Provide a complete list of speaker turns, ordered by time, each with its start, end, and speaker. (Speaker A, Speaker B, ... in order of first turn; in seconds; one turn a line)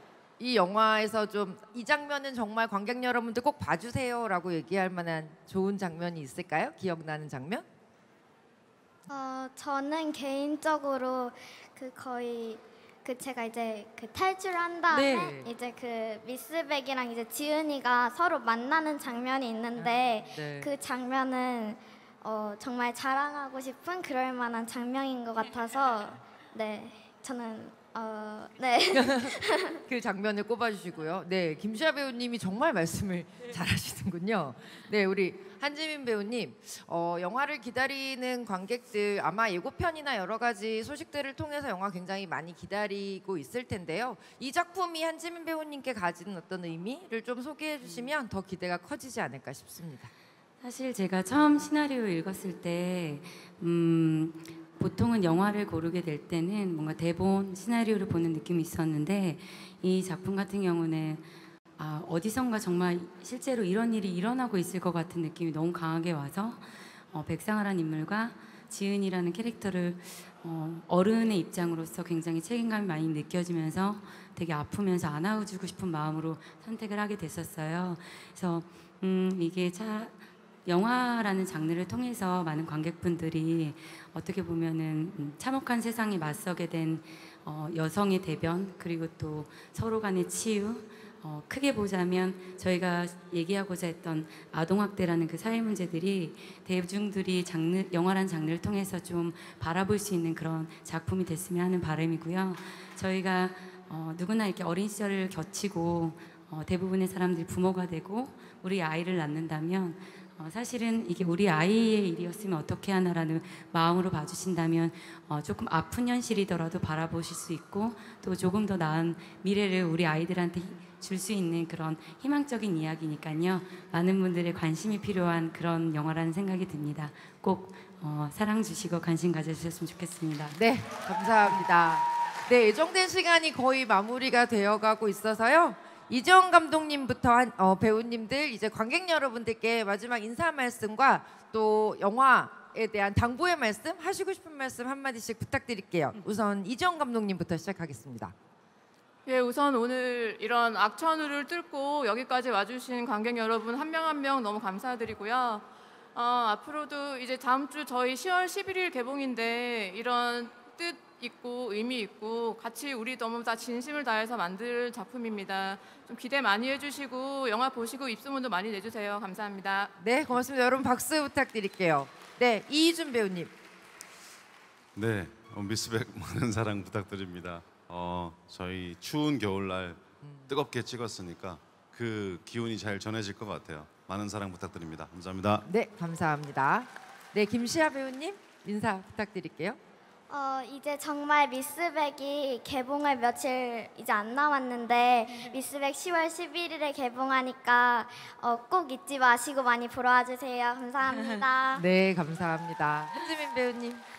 Speaker A: 0.4-7.7
Speaker B: 9.1-29.8
Speaker A: 14.9-15.5
Speaker A: 19.8-20.7
Speaker A: 28.9-50.1
Speaker C: 47.8-48.1
Speaker C: 50.6-61.3
Speaker C: 61.8-130.6
Speaker A: 130.5-148.3
Speaker D: 149.3-169.9
Speaker A: 170.0-173.5
Speaker E: 174.9-185.7
Speaker A: 180.2-180.5
Speaker A: 185.7-189.8
Speaker B: 190.3-201.8
Speaker C: 201.1-201.4
Speaker A: 201.8-204.0